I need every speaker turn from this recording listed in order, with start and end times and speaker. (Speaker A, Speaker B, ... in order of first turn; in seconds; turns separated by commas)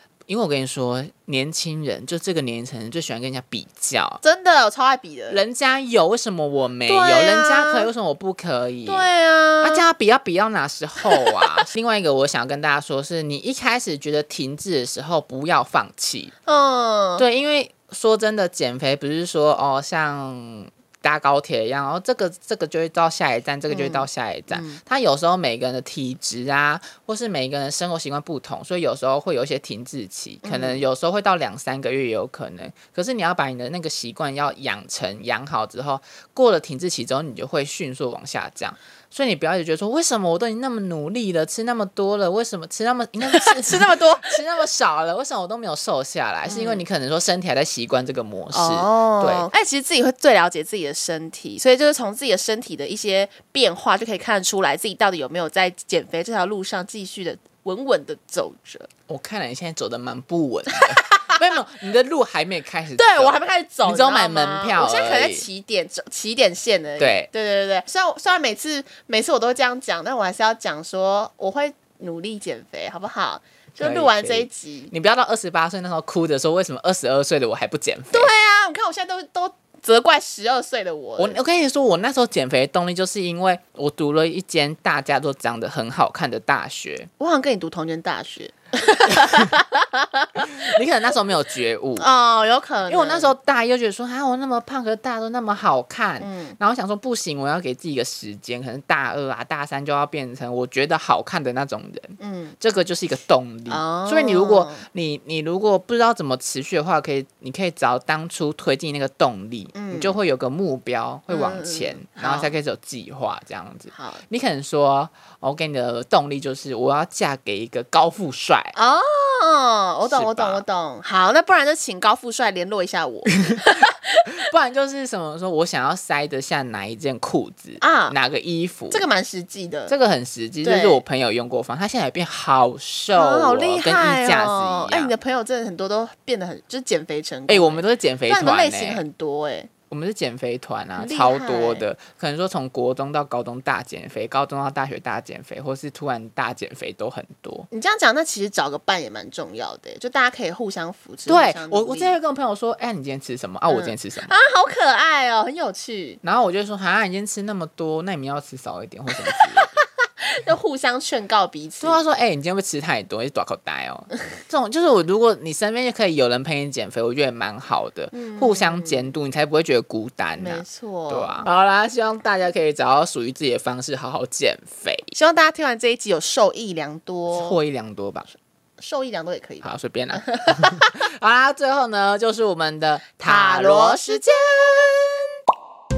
Speaker A: 0.3-4.2, Speaker B: 4.2-5.4, Speaker A: 5.3-9.1, Speaker B: 6.9-7.9, Speaker B: 8.9-9.9, Speaker A: 9.6-16.3, Speaker B: 11.0-11.6, Speaker B: 16.5-17.2, Speaker A: 17.2-49.5, Speaker B: 23.7-24.8, Speaker B: 30.4-30.8, Speaker B: 43.2-44.4, Speaker B: 46.5-46.9, Speaker B: 48.5-58.9, Speaker A: 59.1-65.5, Speaker B: 60.7-61.6, Speaker B: 63.0-74.9, Speaker A: 67.0-67.3, Speaker A: 73.8-78.3, Speaker B: 78.1-81.4, Speaker A: 81.2-87.1, Speaker B: 87.2-90.8, Speaker A: 90.4-92.1, Speaker B: 92.0-93.3, Speaker A: 92.9-118.8, Speaker B: 96.2-96.6, Speaker B: 102.2-102.6, Speaker B: 103.7-104.8, Speaker B: 109.7-110.2, Speaker B: 111.3-112.5, Speaker B: 113.9-114.2, Speaker B: 118.8-124.4, Speaker A: 120.0-120.6, Speaker A: 123.5-129.1, Speaker B: 127.8-128.2, Speaker B: 128.9-129.9, Speaker A: 129.9-135.1, Speaker B: 130.6-131.0, Speaker B: 133.1-139.7, Speaker A: 137.5-139.0, Speaker A: 139.9-147.7, Speaker B: 141.0-141.8, Speaker B: 147.7-152.2, Speaker A: 151.3-154.4, Speaker B: 153.7-156.2, Speaker A: 156.2-159.7, Speaker B: 159.1-162.0, Speaker A: 161.8-175.1, Speaker B: 168.1-169.1, Speaker B: 170.4-171.5, Speaker B: 175.1-177.6, Speaker A: 177.3-178.3, Speaker B: 178.8-181.0, Speaker A: 179.6-185.1, Speaker B: 183.2-185.0